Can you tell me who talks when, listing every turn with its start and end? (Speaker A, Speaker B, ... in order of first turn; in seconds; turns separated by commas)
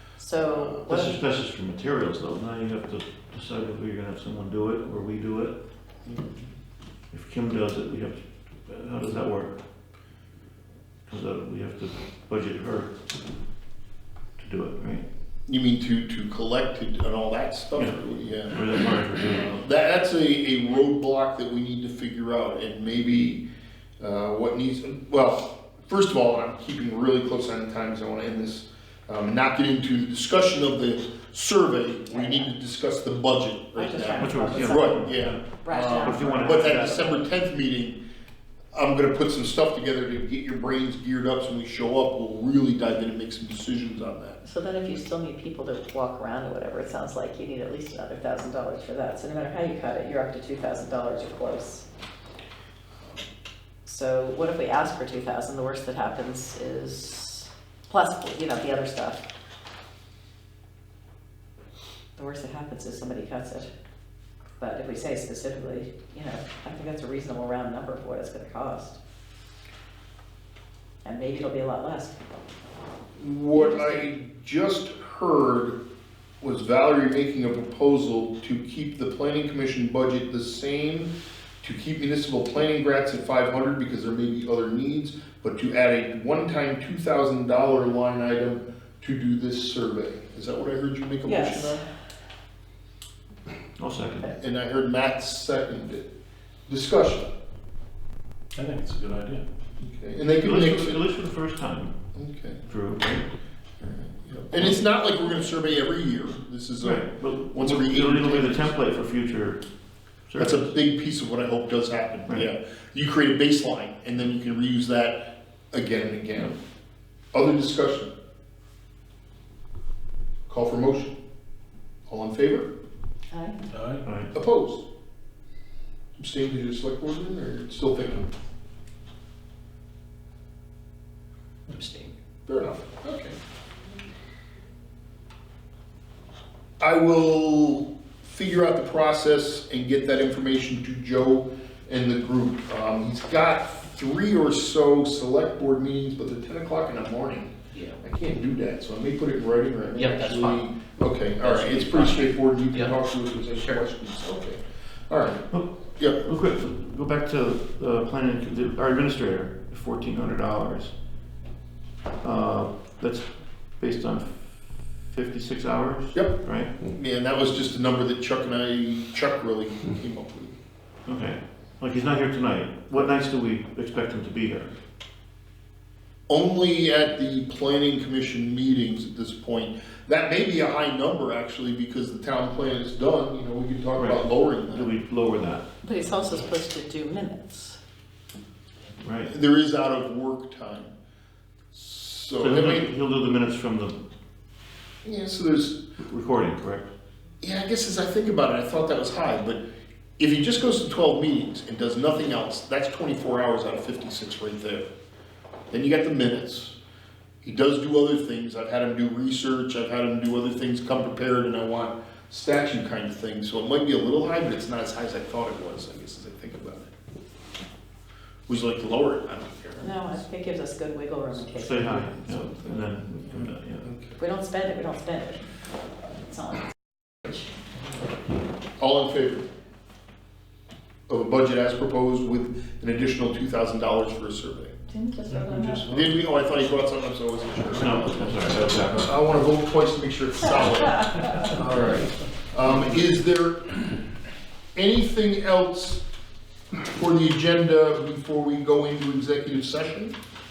Speaker A: 0.2-1.2, Speaker B: 0.3-0.9, Speaker C: 0.8-5.6, Speaker B: 6.0-6.5, Speaker C: 7.1-9.6, Speaker C: 11.1-13.0, Speaker C: 14.4-15.0, Speaker B: 15.5-18.9, Speaker C: 17.7-19.7, Speaker B: 19.5-23.4, Speaker B: 24.0-38.0, Speaker A: 32.1-32.5, Speaker A: 33.7-35.1, Speaker C: 34.2-37.2, Speaker A: 35.6-37.2, Speaker B: 38.7-44.4, Speaker A: 44.4-51.8, Speaker A: 53.8-59.2, Speaker A: 62.1-63.7, Speaker A: 64.6-69.0, Speaker A: 71.0-72.2, Speaker B: 73.2-75.8, Speaker A: 73.5-74.0, Speaker B: 76.4-81.1, Speaker B: 81.6-91.8, Speaker A: 91.2-91.8, Speaker C: 93.8-94.3, Speaker B: 94.3-96.1, Speaker B: 96.7-97.3, Speaker D: 98.5-99.4, Speaker B: 99.8-101.0, Speaker C: 100.4-102.0, Speaker B: 102.1-102.6, Speaker C: 102.7-103.2, Speaker B: 103.8-108.7, Speaker C: 106.8-109.6, Speaker C: 110.3-110.7, Speaker B: 110.4-116.6, Speaker B: 117.3-118.1, Speaker B: 120.5-121.2, Speaker B: 122.1-122.7, Speaker A: 123.3-123.6, Speaker D: 123.7-124.0, Speaker C: 124.0-124.3, Speaker B: 124.3-124.8, Speaker B: 126.2-128.3, Speaker E: 131.7-132.1, Speaker B: 132.5-133.4, Speaker B: 136.8-156.3, Speaker E: 149.9-150.6, Speaker E: 151.4-153.0, Speaker E: 153.5-153.8, Speaker C: 155.5-160.9, Speaker C: 162.2-163.3, Speaker C: 163.8-166.7, Speaker B: 166.1-170.5, Speaker C: 171.1-174.7, Speaker B: 176.3-184.9, Speaker C: 183.9-185.7, Speaker A: 185.8-187.8, Speaker C: 189.0-189.3, Speaker B: 189.2-190.9, Speaker B: 191.7-192.9, Speaker C: 192.4-194.0, Speaker B: 195.0-195.8, Speaker C: 196.0-196.9, Speaker B: 197.4-199.6, Speaker B: 200.2-204.9, Speaker B: 205.7-206.8, Speaker B: 207.4-216.9, Speaker B: 218.5-220.1, Speaker A: 219.8-222.5, Speaker C: 221.5-223.9, Speaker B: 223.3-224.2, Speaker A: 224.2-225.5, Speaker A: 226.2-226.7, Speaker B: 228.8-229.5, Speaker B: 231.1-234.7, Speaker A: 234.9-235.9, Speaker D: 235.3-236.6, Speaker B: 235.9-243.8, Speaker C: 237.7-239.1, Speaker D: 238.7-239.1, Speaker A: 241.0-241.5, Speaker E: 241.5-242.1, Speaker B: 244.7-246.0, Speaker B: 246.8-250.1